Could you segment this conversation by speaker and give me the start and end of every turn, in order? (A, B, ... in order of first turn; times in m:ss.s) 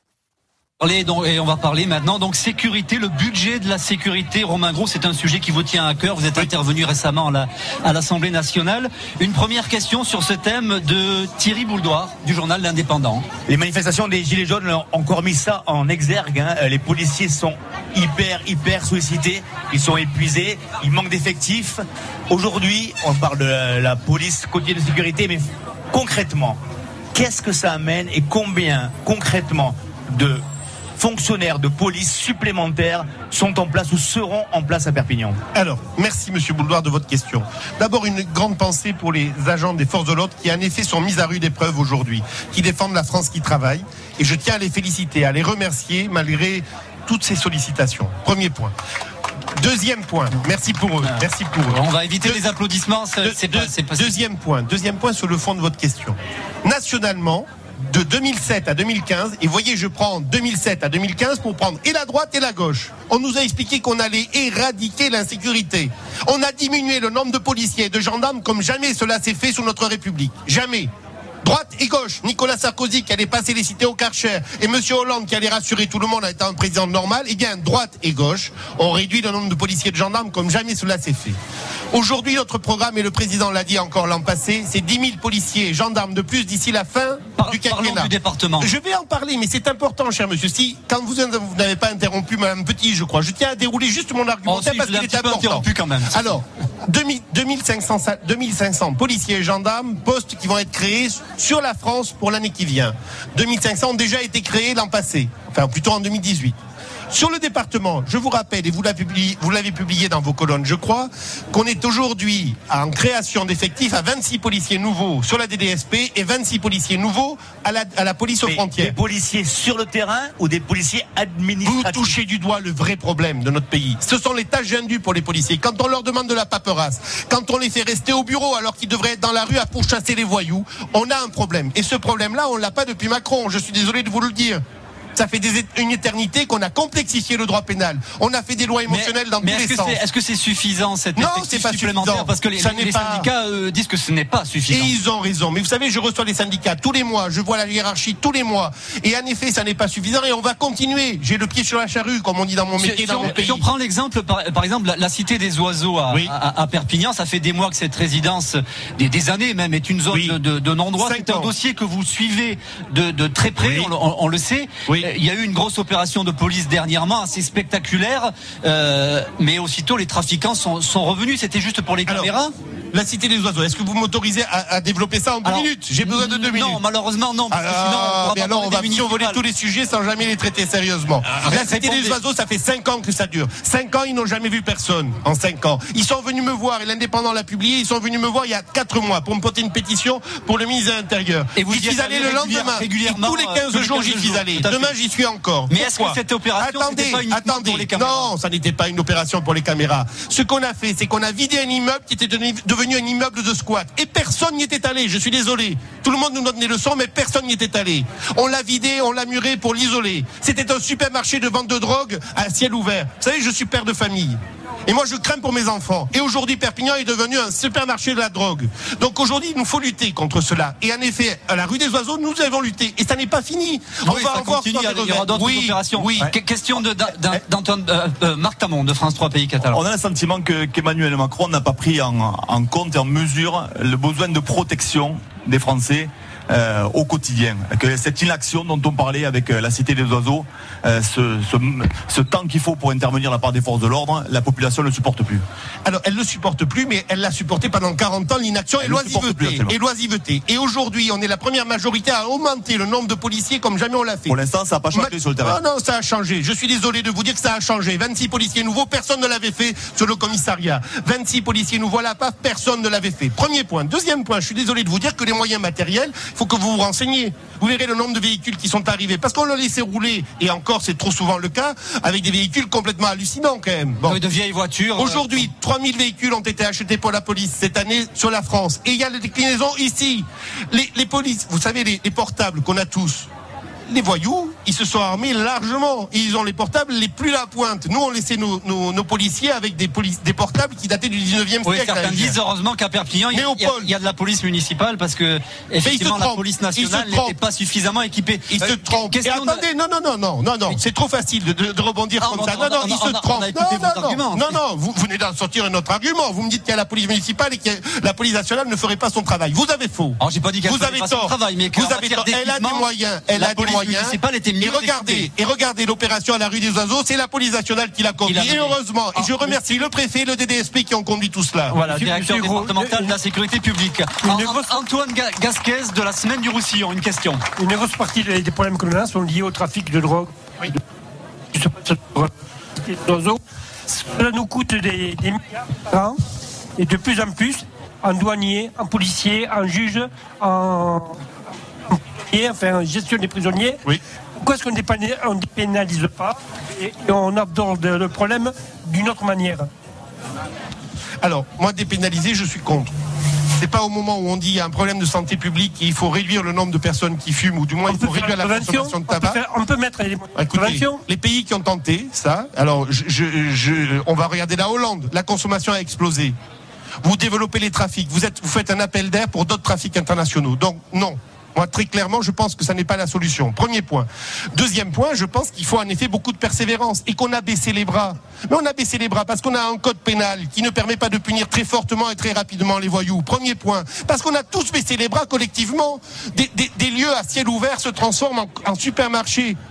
0:00.8-0:13.3 A
0:13.5-0:26.6 B
0:27.1-0:30.4 B
0:31.0-0:35.4 B
0:35.5-0:48.7 C
0:49.6-0:52.4 C
0:51.0-0:54.1 A
0:53.2-1:10.9 C
1:11.4-1:21.4 C
1:21.9-1:46.6 C
1:27.4-1:28.7 A
1:34.5-1:36.2 A
1:47.1-1:59.0 C
1:58.4-2:02.2 B
2:01.6-2:14.6 C
2:15.2-2:20.0 C
2:18.9-2:24.9 A
2:21.2-2:23.3 C
2:24.7-2:33.6 C
2:32.8-2:52.5 A
2:40.1-2:40.4 C
2:41.0-2:41.5 C
2:43.6-2:43.9 C
2:52.1-2:52.3 C
2:52.9-2:56.8 C
2:55.4-2:59.4 A
2:57.5-3:47.4 C
3:01.3-3:02.2 A
3:11.6-3:14.9 A
3:15.7-3:18.3 A
3:44.0-3:49.8 A
3:49.7-4:05.4 D
4:05.8-4:14.4 C
4:08.8-4:09.7 D
4:14.3-4:15.6 D
4:14.9-4:34.2 C
4:34.1-4:35.5 A
4:35.0-4:43.3 C
4:43.9-4:52.4 C
4:51.6-4:59.6 A
4:53.3-4:53.9 C
4:55.8-4:57.4 C
4:58.5-5:21.8 C
5:02.2-5:04.6 A
5:10.2-5:15.3 A
5:18.3-5:19.5 A
5:21.7-5:27.4 A
5:21.8-5:23.2 E
5:24.2-5:24.8 E
5:27.6-5:30.3 E
5:31.5-5:36.2 E
5:36.8-5:41.2 E
5:41.9-5:43.8 E
5:44.4-5:49.7 E
5:51.2-5:52.9 C
5:53.5-5:59.4 C
5:57.9-6:01.0 E
6:00.4-6:06.4 C
6:07.0-6:29.6 C